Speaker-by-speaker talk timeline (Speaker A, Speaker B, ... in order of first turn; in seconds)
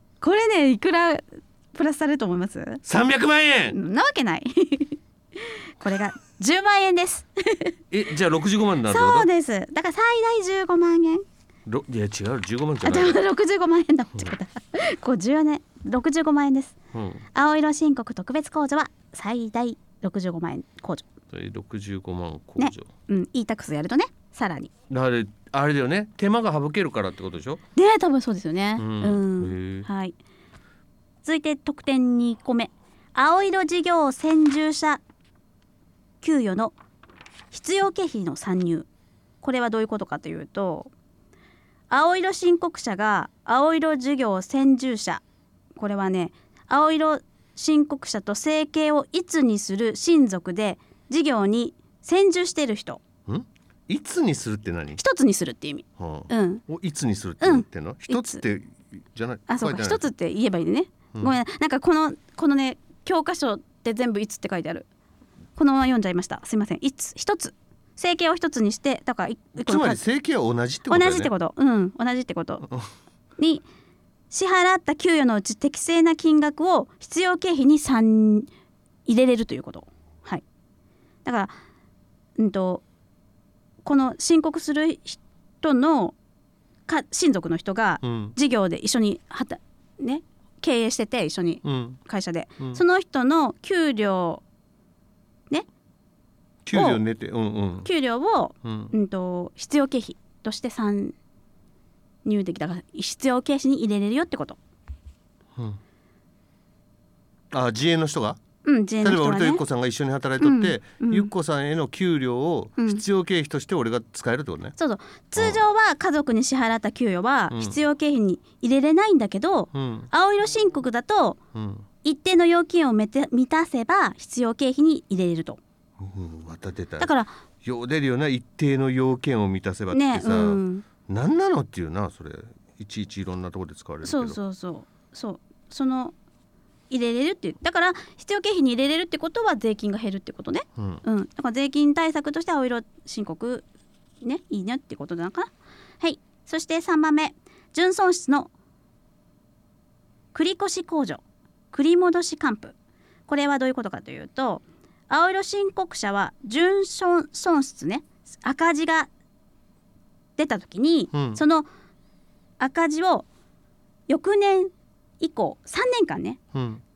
Speaker A: 0.2-2.8, 3.7-7.7, 8.9-11.2, 12.8-16.8, 17.3-21.1, 22.6-24.7, 27.7-30.1, 31.2-35.0, 36.2-36.8, 37.5-38.9, 39.4-40.9, 41.9-45.2, 45.8-53.0, 55.0-56.6, 57.4-58.4, 59.5-64.9, 65.5-70.0, 70.9-72.7, 73.4-73.6, 74.3-78.5, 79.1-80.4, 81.2-81.5, 82.4-82.8, 83.8-86.1, 86.9-94.4, 96.7-97.0, 97.8-101.1, 102.2-104.6, 108.6-109.6, 110.4-111.3, 112.8-113.0, 114.8-121.4, 122.0-125.6, 127.0-127.3, 129.9-130.8, 134.0-136.1, 136.9-143.6, 144.2-148.5, 150.3-152.7, 153.3-159.1, 160.4-161.7, 162.6-163.2, 164.1-166.4
Speaker B: 2.8-3.8, 7.9-9.3, 11.7-13.2, 16.9-17.2, 21.3-22.9, 24.9-27.6, 28.8-29.9, 53.2-55.0, 56.0-60.0, 69.6-71.3, 88.0-88.4, 91.6-92.0, 96.6-97.9, 98.6-98.9, 107.5-108.4, 109.0-114.7, 115.4-115.6, 117.5-117.8, 119.7-120.1, 121.5-121.9, 126.0-127.1, 127.6-134.4, 140.8-141.0, 161.1-161.4, 166.5-166.8